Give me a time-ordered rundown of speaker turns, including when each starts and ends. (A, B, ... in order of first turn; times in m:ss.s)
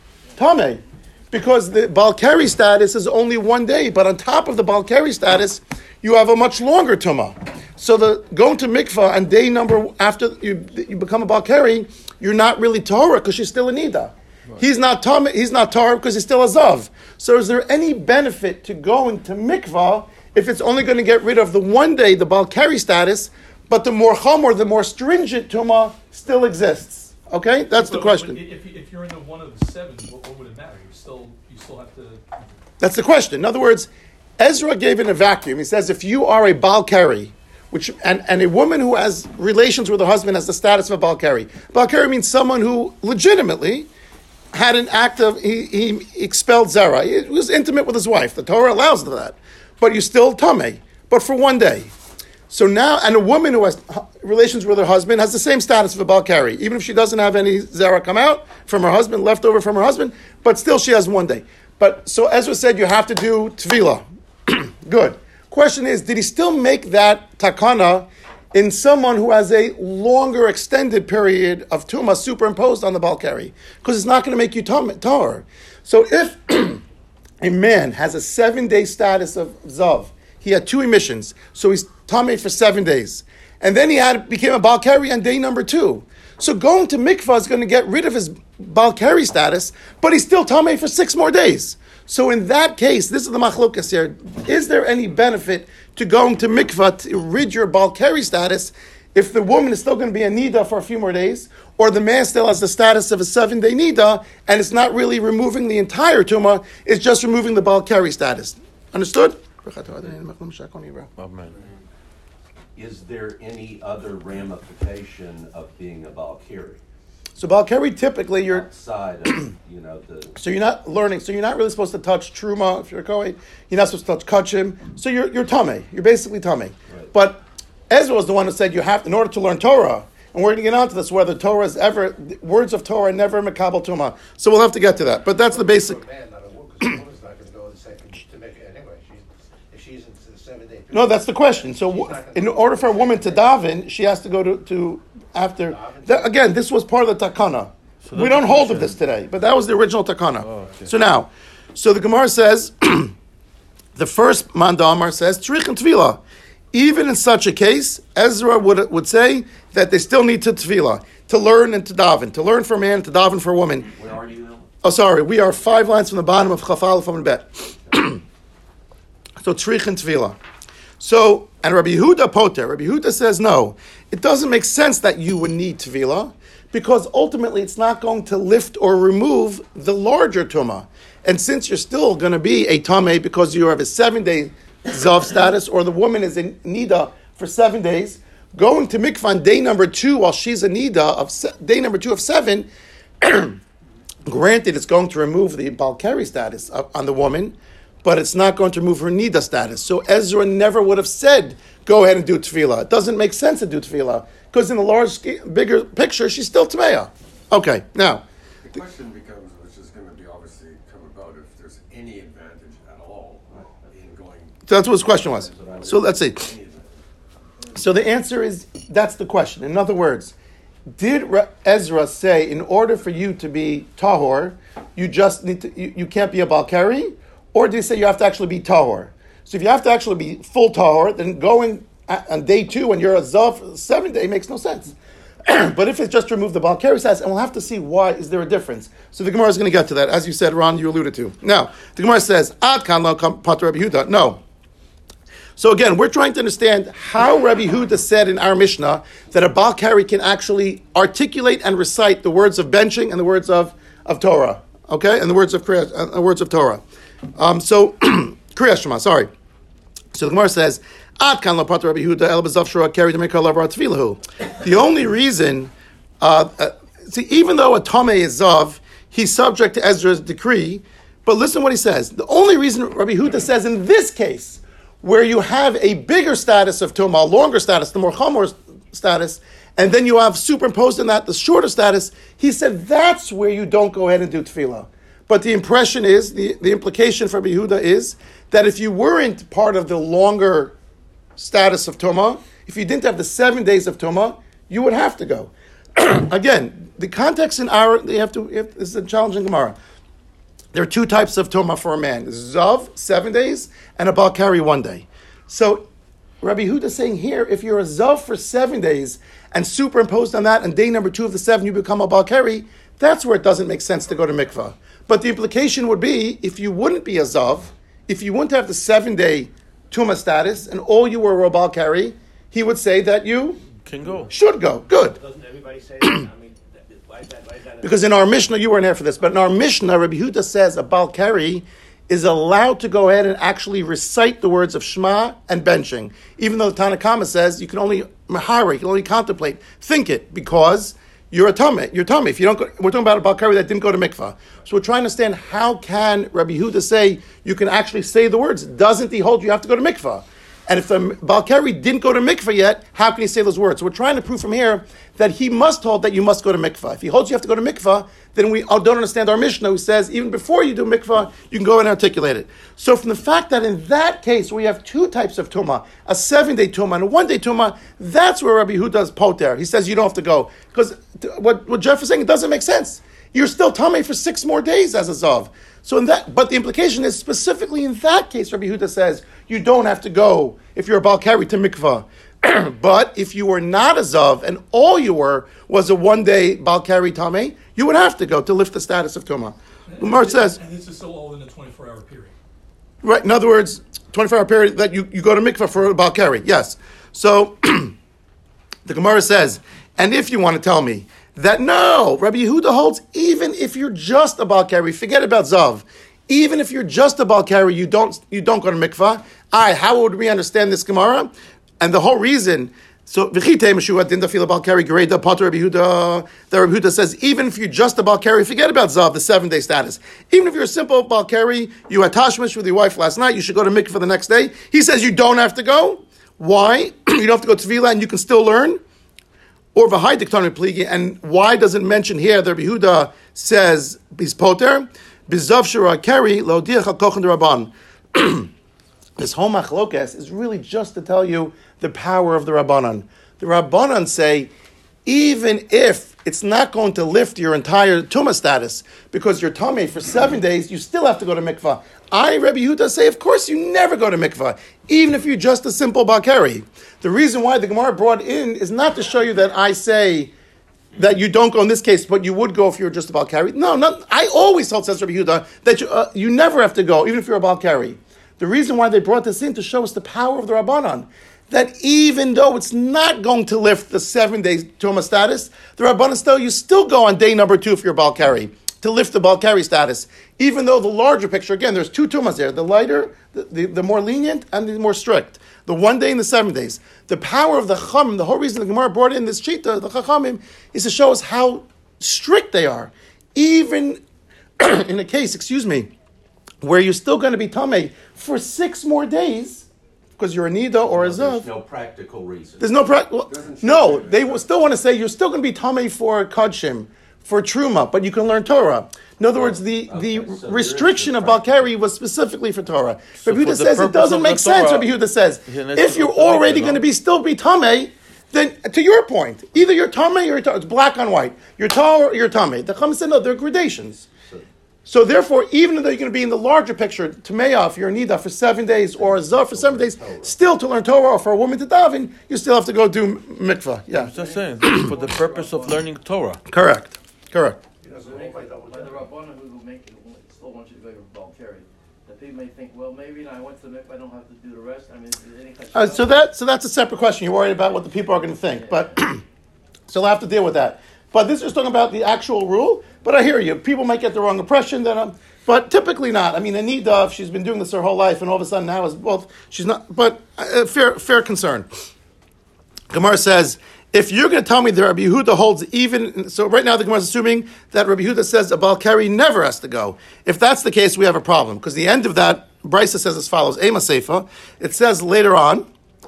0:00.4-0:28.4 A
0:27.7-0:32.2 B
0:32.8-0:33.9 A
0:34.4-0:43.9 A
0:44.5-0:51.9 A
0:52.5-1:16.8 A
1:17.4-1:51.1 A
1:51.2-1:51.5 C
1:52.8-1:56.8 D
1:57.4-1:58.6 A
1:58.5-2:00.4 D
2:00.3-2:16.0 A
2:15.4-2:23.6 E
2:20.9-2:33.1 A
2:25.6-2:26.5 E
2:28.0-2:29.0 C
2:30.4-2:30.9 C
2:34.0-2:36.2 A
2:36.7-2:43.9 A
2:43.9-2:44.6 D
2:44.8-2:48.2 A
2:49.4-2:50.4 A
2:51.0-3:12.7 A
3:13.2-3:13.6 A
3:14.2-3:28.2 A
3:28.6-3:34.6 F
3:34.7-3:36.5 A
3:34.9-3:36.8 D
3:37.7-3:40.3 A
3:41.0-4:04.4 A
4:05.6-4:16.8 A
4:17.4-4:19.3 A
4:20.1-4:50.7 A
4:51.4-4:59.8 A
5:00.7-5:05.8 A
5:06.4-5:23.6 A
5:23.8-5:24.3 C
5:24.3-5:25.2 A
5:25.0-5:28.6 G
5:27.8-6:30.6 A
6:29.9-6:32.3 B
6:33.0-6:37.9 A
6:38.8-7:08.8 A
7:09.7-7:18.5 A
7:19.2-7:24.5 A
7:25.0-7:40.3 A
7:40.9-8:14.0 A
8:14.6-8:15.9 A
8:16.6-8:19.7 A
8:20.2-8:21.4 A
8:20.9-8:22.7 D
8:22.6-8:44.1 A
8:23.3-8:24.5 F
8:29.3-8:31.7 D
8:33.2-8:34.9 C
8:35.4-8:36.8 C
8:44.8-8:54.9 A
8:49.0-8:50.3 D
8:54.0-8:56.4 C
8:54.1-8:55.9 G
8:56.5-8:57.6 A
8:57.8-8:59.0 E
8:58.0-9:06.2 G
9:05.7-9:09.2 A
9:08.5-9:08.9 G
9:09.9-9:21.7 A
9:22.9-9:35.6 A